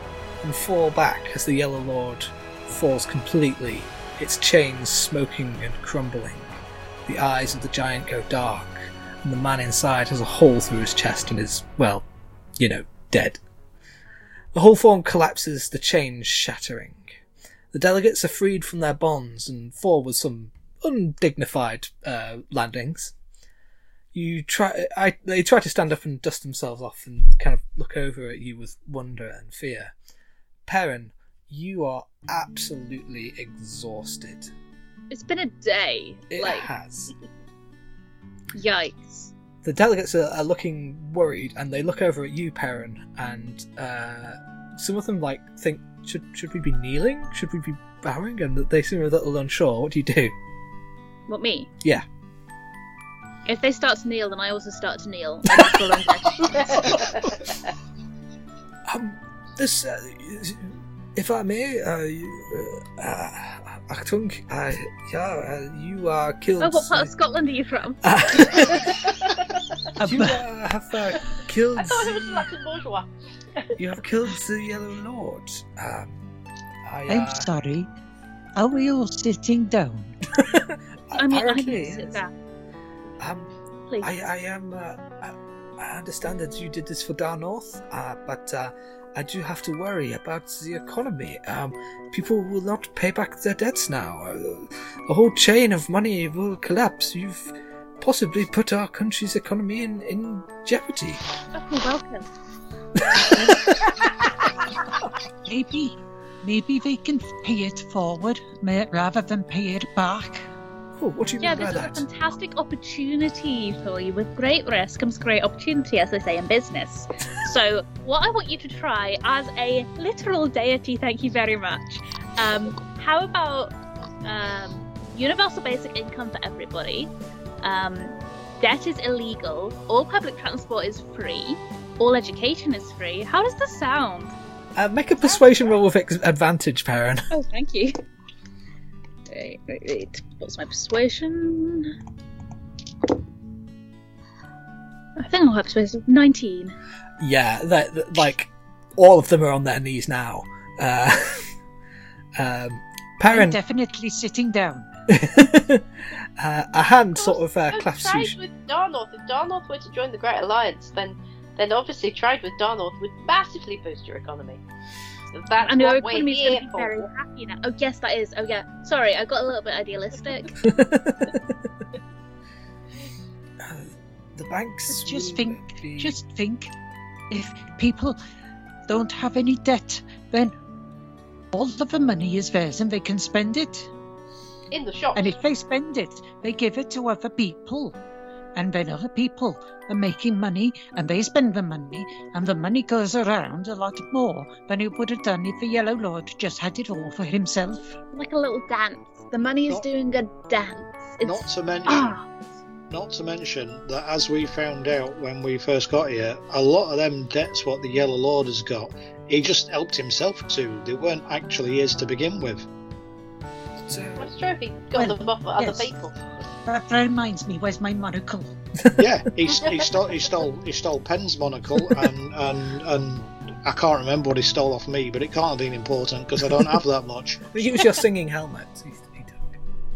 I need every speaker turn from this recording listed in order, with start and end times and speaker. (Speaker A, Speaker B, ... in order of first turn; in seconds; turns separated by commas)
Speaker A: 0.4-12.0, Speaker A: 12.6-13.4, Speaker A: 14.5-17.2, Speaker A: 17.7-23.1, Speaker A: 24.1-29.9, Speaker A: 30.6-34.5, Speaker B: 35.1-36.7, Speaker A: 36.3-37.1, Speaker B: 38.5-39.3, Speaker A: 39.6-50.3, Speaker B: 51.3-51.7, Speaker B: 53.5-56.9, Speaker A: 55.5-55.8, Speaker C: 56.5-57.3, Speaker A: 58.9-67.1, Speaker B: 66.6-68.0, Speaker A: 68.0-69.1, Speaker D: 70.0-70.4, Speaker A: 70.0-72.5, Speaker C: 71.8-73.1, Speaker A: 73.8-76.2, Speaker A: 76.8-77.5, Speaker D: 77.1-77.9, Speaker D: 78.5-80.2, Speaker A: 80.4-82.2, Speaker B: 81.1-82.3, Speaker A: 83.2-83.5, Speaker B: 83.9-84.2, Speaker A: 84.0-101.2, Speaker B: 101.5-102.3, Speaker A: 103.0-103.9, Speaker D: 105.4-110.5, Speaker A: 111.0-112.0, Speaker B: 111.4-134.3, Speaker A: 134.8-137.3, Speaker B: 137.3-137.9, Speaker B: 139.3-141.9, Speaker B: 145.2-146.8, Speaker A: 147.2-151.5, Speaker A: 152.3-153.6, Speaker D: 153.3-154.9, Speaker A: 155.1-155.8, Speaker A: 156.4-158.4, Speaker C: 157.1-164.6, Speaker C: 165.3-167.1, Speaker B: 165.6-170.6, Speaker A: 170.6-171.4, Speaker A: 173.6-176.1, Speaker D: 174.9-176.7, Speaker D: 177.3-178.2, Speaker D: 178.9-180.5, Speaker D: 181.5-183.9, Speaker C: 184.7-185.3, Speaker D: 185.1-188.0, Speaker D: 188.5-198.0, Speaker B: 198.1-202.2, Speaker E: 201.2-202.2, Speaker E: 202.9-212.7, Speaker A: 213.9-214.3, Speaker C: 214.2-216.1, Speaker D: 214.9-215.9, Speaker D: 216.7-218.5, Speaker E: 218.9-227.5, Speaker A: 227.5-229.6